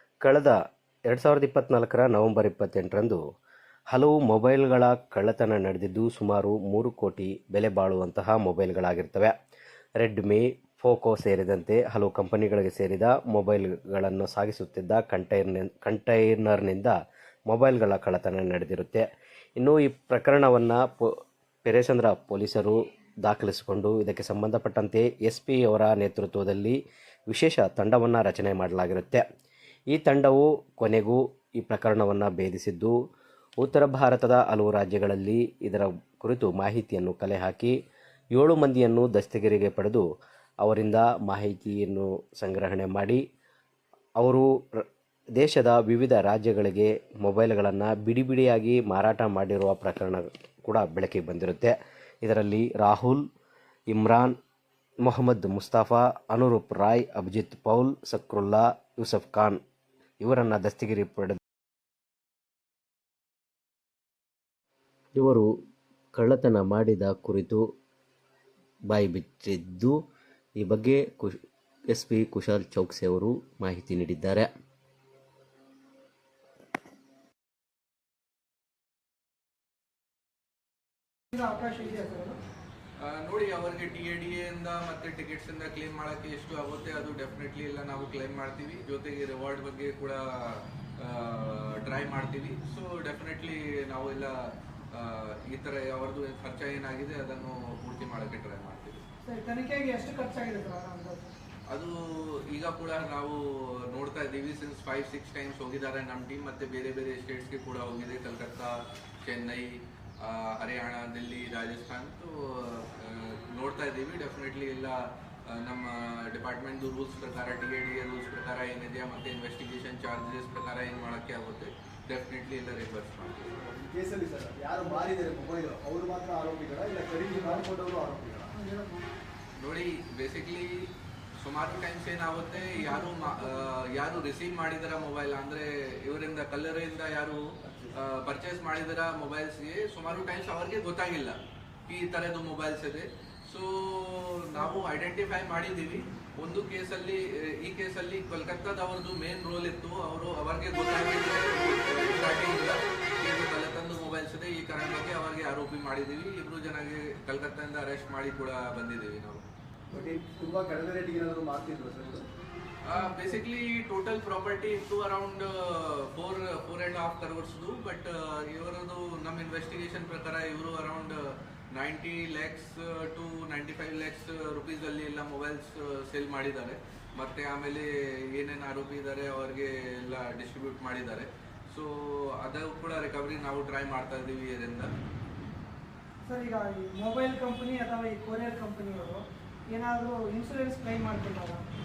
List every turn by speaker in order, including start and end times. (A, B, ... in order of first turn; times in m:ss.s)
0:00.2-0:00.6 A
0:01.1-0:03.2 A
0:03.9-0:09.3 A
0:10.0-0:16.9 A
0:17.5-0:19.0 A
0:19.6-0:21.1 A
0:21.6-0:26.8 A
0:27.3-0:29.2 A
0:29.9-0:32.9 A
0:33.6-0:37.7 A
0:38.3-0:40.0 A
0:40.6-0:43.2 A
0:44.2-0:44.8 A
0:45.4-0:53.2 A
0:53.9-0:54.3 A
0:55.0-0:59.6 A
1:00.2-1:01.4 A
1:05.1-1:05.5 A
1:06.1-1:07.6 A
1:08.9-1:10.0 A
1:10.6-1:11.3 A
1:11.9-1:14.5 A
1:21.3-1:22.4 B
1:23.0-1:34.3 C
1:34.9-1:39.1 C
1:39.2-1:41.3 B
1:41.7-2:03.6 C
2:03.5-2:08.5 D
2:07.3-2:07.6 B
2:08.5-2:09.0 B
2:09.6-2:10.9 C
2:11.4-2:39.4 C
2:12.6-2:13.7 B
2:17.6-2:18.0 D
2:39.9-2:42.2 D
2:42.8-3:04.9 C
2:42.9-2:43.4 B
3:06.2-3:11.6 B